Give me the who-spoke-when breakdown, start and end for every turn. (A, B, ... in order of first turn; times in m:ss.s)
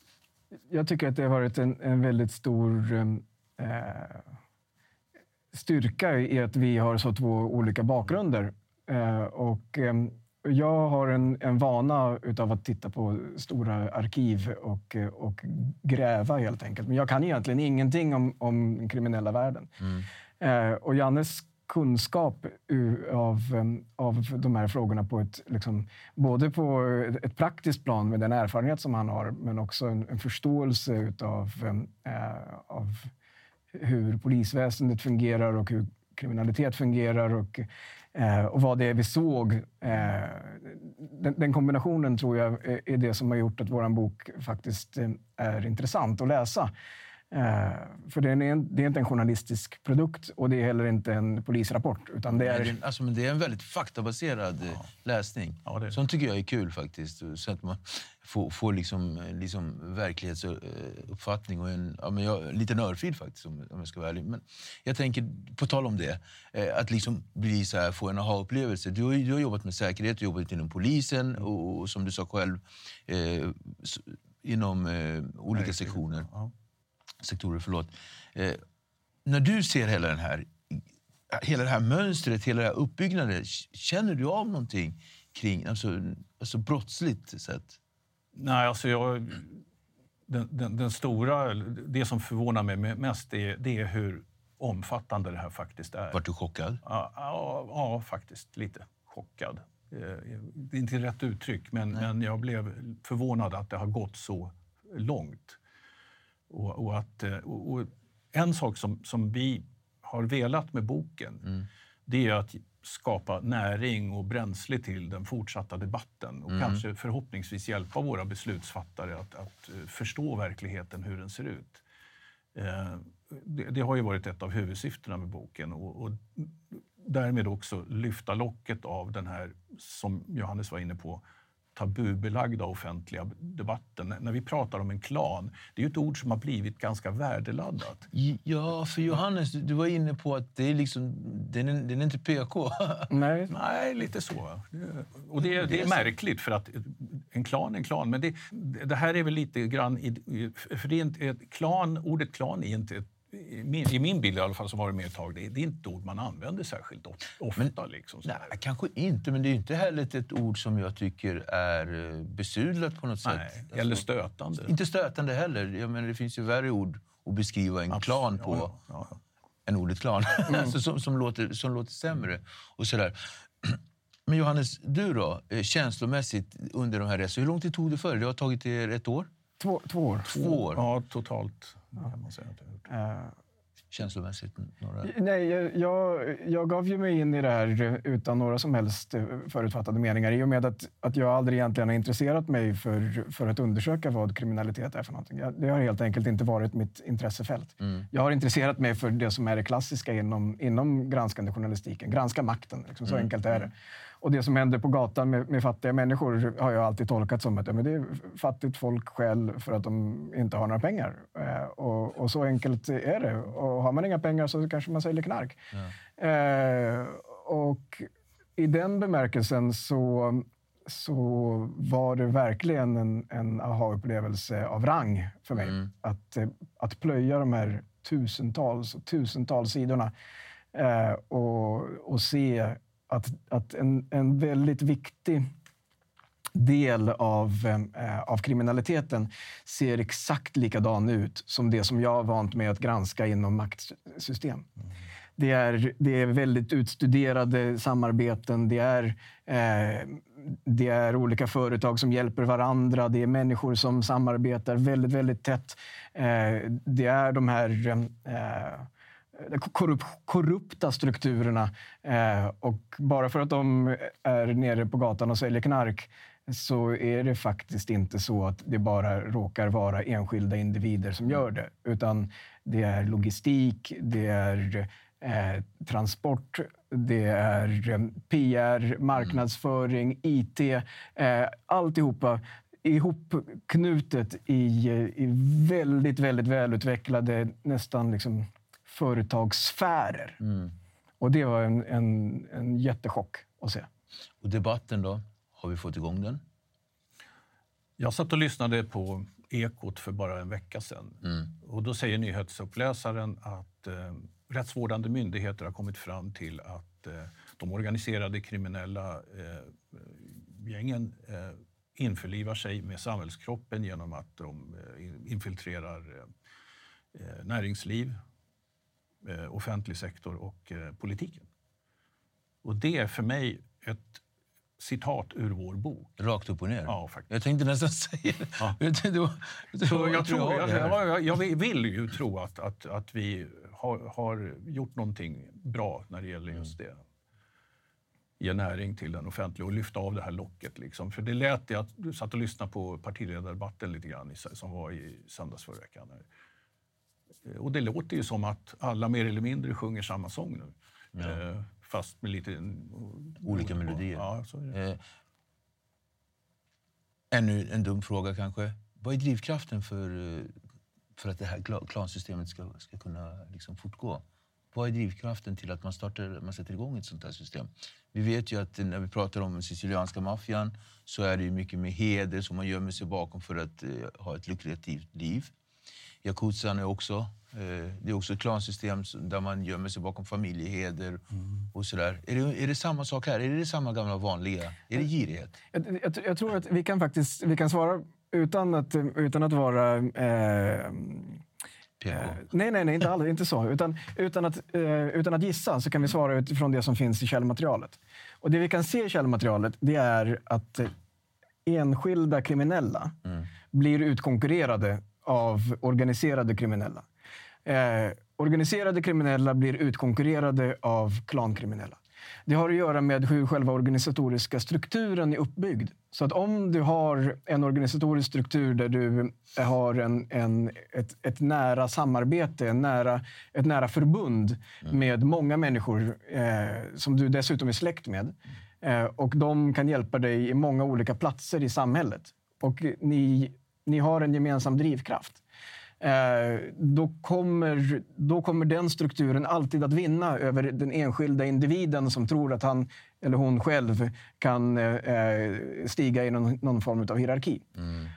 0:00.7-0:04.2 A
0:05.5-0:19.9 A
0:20.4-0:33.1 A
0:33.7-0:46.7 A
0:47.3-0:52.7 A
0:52.3-1:16.3 B
0:55.6-0:56.0 C
1:15.5-1:16.5 C
1:17.2-1:18.6 B
1:19.2-1:27.8 B
1:28.4-1:29.6 C
1:30.3-1:36.2 C
1:36.1-1:36.8 B
1:36.8-1:45.6 C
1:46.5-2:01.8 C
1:56.5-1:56.8 B
2:02.6-2:11.2 C
2:11.8-2:18.1 C
2:18.1-2:23.1 B
2:23.1-2:23.5 A
2:23.5-2:38.5 C
2:25.4-2:26.1 B
2:38.2-2:44.0 B
2:43.2-2:44.7 C
2:44.6-2:48.7 B
2:47.9-2:49.2 C
2:49.7-2:59.3 B
2:59.6-3:00.3 A
3:00.2-3:00.8 B
3:00.3-3:02.8 C
3:02.9-3:03.4 A
3:03.9-3:05.1 B
3:05.0-3:35.6 A
3:36.2-3:50.1 A
3:50.7-3:55.5 A
3:56.6-4:04.6 A
4:05.4-4:50.4 A
4:51.2-4:53.9 A
4:54.4-4:56.4 B
4:58.0-5:16.3 C
5:17.1-5:18.2 C
5:19.2-5:21.5 C
5:22.6-5:24.2 C
5:24.8-5:26.2 C
5:26.2-5:31.0 B
5:26.8-5:27.3 C
5:29.8-5:37.0 C
5:38.4-5:46.2 C
5:47.4-5:54.8 C
5:51.2-5:51.4 B
5:53.4-5:55.0 B
5:57.3-6:00.5 B
6:01.2-6:15.5 B
6:16.2-6:25.6 B
6:25.7-6:31.4 A
6:32.0-6:32.4 B
6:32.1-6:40.9 A
6:41.7-6:47.1 A
6:47.6-7:15.4 A
7:16.0-7:27.7 A